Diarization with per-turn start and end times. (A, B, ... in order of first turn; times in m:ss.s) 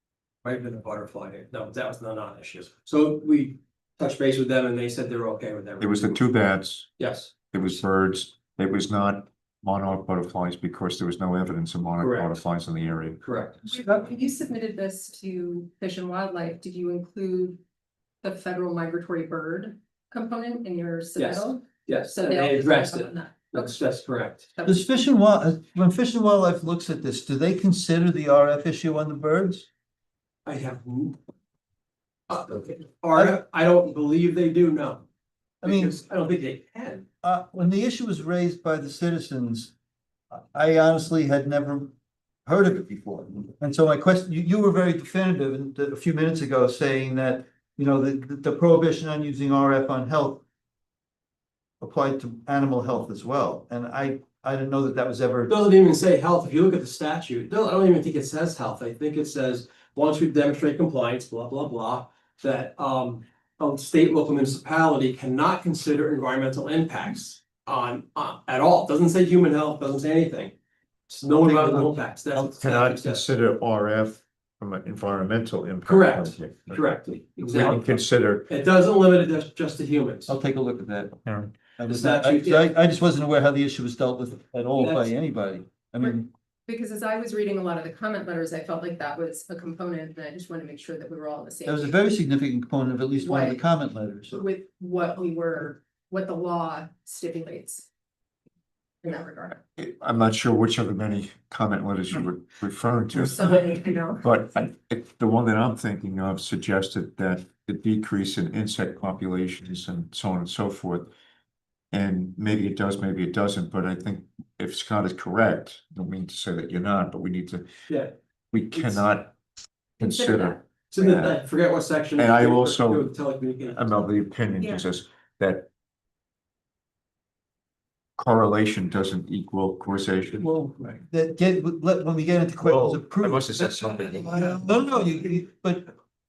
0:00.4-0:06.2 A
0:05.8-0:06.9 B
0:07.0-0:07.3 A
0:07.5-0:13.2 B
0:12.0-0:12.4 A
0:13.2-0:13.7 A
0:13.6-0:17.6 C
0:18.2-0:23.8 C
0:21.2-0:24.5 A
0:24.6-0:24.9 C
0:24.6-0:29.7 D
0:30.4-0:31.2 A
0:32.3-0:35.1 A
0:35.6-0:37.1 A
0:35.6-0:36.0 D
0:37.2-0:39.7 D
0:40.3-0:41.9 D
0:42.5-0:50.4 D
0:51.8-0:55.6 D
0:55.5-1:10.6 A
1:11.1-1:13.3 A
1:11.4-1:11.9 D
1:12.3-1:16.8 B
1:15.8-1:17.9 A
1:17.5-1:18.5 B
1:18.5-1:20.3 A
1:20.3-1:26.3 D
1:21.3-1:21.5 B
1:21.9-1:22.7 A
1:24.8-1:25.1 A
1:26.0-1:32.0 C
1:31.7-1:34.4 D
1:33.2-1:33.6 C
1:34.3-1:37.9 C
1:39.0-1:39.6 C
1:39.8-1:51.1 B
1:43.1-1:44.3 C
1:51.9-1:57.7 B
1:57.9-1:58.1 A
1:58.5-1:59.4 B
1:58.7-1:59.0 A
2:00.0-2:00.6 B
2:00.0-2:01.2 C
2:00.9-2:04.0 A
2:02.2-2:03.1 B
2:03.7-2:05.7 B
2:04.6-2:04.9 C
2:08.2-2:10.5 B
2:10.4-2:15.9 D
2:12.6-2:14.8 B